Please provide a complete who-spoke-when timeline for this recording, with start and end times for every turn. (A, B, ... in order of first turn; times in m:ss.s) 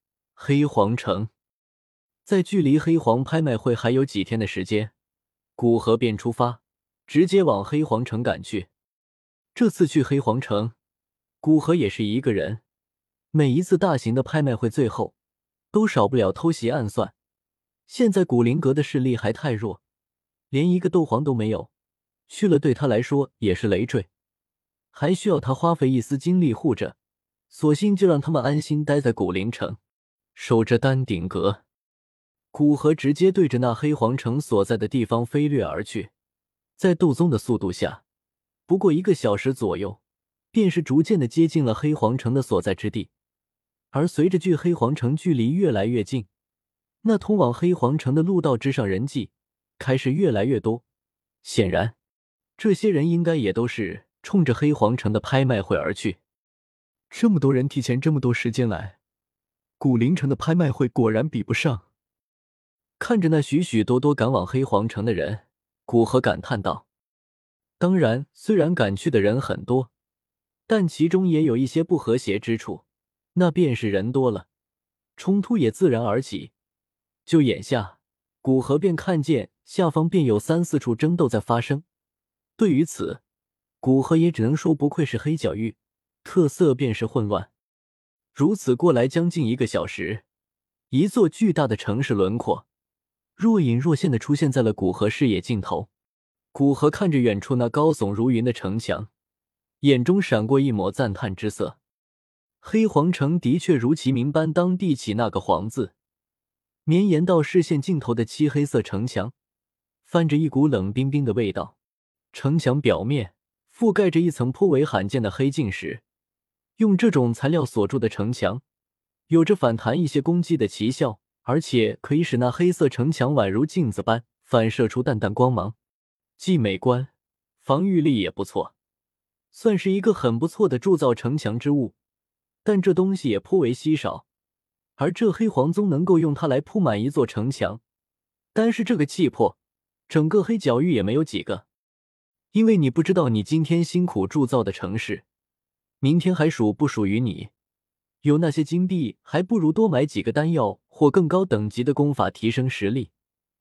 0:00.4-0:01.3 A
0:02.2-0:04.9 A
0:05.6-0:08.7 A
0:09.5-0:10.7 A
0:11.4-0:12.6 A
0:13.3-0:15.1 A
0:15.7-0:17.1 A
0:17.9-0:19.8 A
0:20.5-0:21.7 A
0:22.3-0:24.1 A
0:24.9-0:27.0 A
0:27.5-0:29.8 A
0:30.3-0:31.6 A
0:32.5-0:36.1 A
0:36.8-0:38.0 A
0:38.7-0:40.0 A
0:40.5-0:43.1 A
0:43.9-0:46.3 A
0:47.0-0:50.8 A
0:51.4-0:51.9 A
0:52.6-0:56.2 A
0:57.1-0:59.0 A
0:59.8-1:01.8 A
1:03.0-1:06.8 A
1:07.8-1:09.9 A
1:10.7-1:12.8 A
1:13.3-1:14.5 A
1:15.2-1:16.5 A
1:17.2-1:21.8 A
1:22.6-1:23.2 A
1:23.8-1:27.5 A
1:28.3-1:30.2 A
1:30.9-1:32.6 A
1:33.4-1:35.9 A
1:36.5-1:39.1 A
1:39.8-1:41.8 A
1:42.6-1:45.9 A
1:46.8-1:49.3 A
1:50.0-1:51.8 A
1:52.3-1:56.0 A
1:56.8-1:58.6 A
1:59.3-2:05.7 A
2:06.4-2:08.7 A
2:09.5-2:11.9 A
2:12.6-2:14.2 A
2:15.0-2:17.8 A
2:18.5-2:19.6 A
2:20.1-2:21.6 A
2:22.5-2:25.2 A
2:26.0-2:27.5 A
2:28.2-2:33.1 A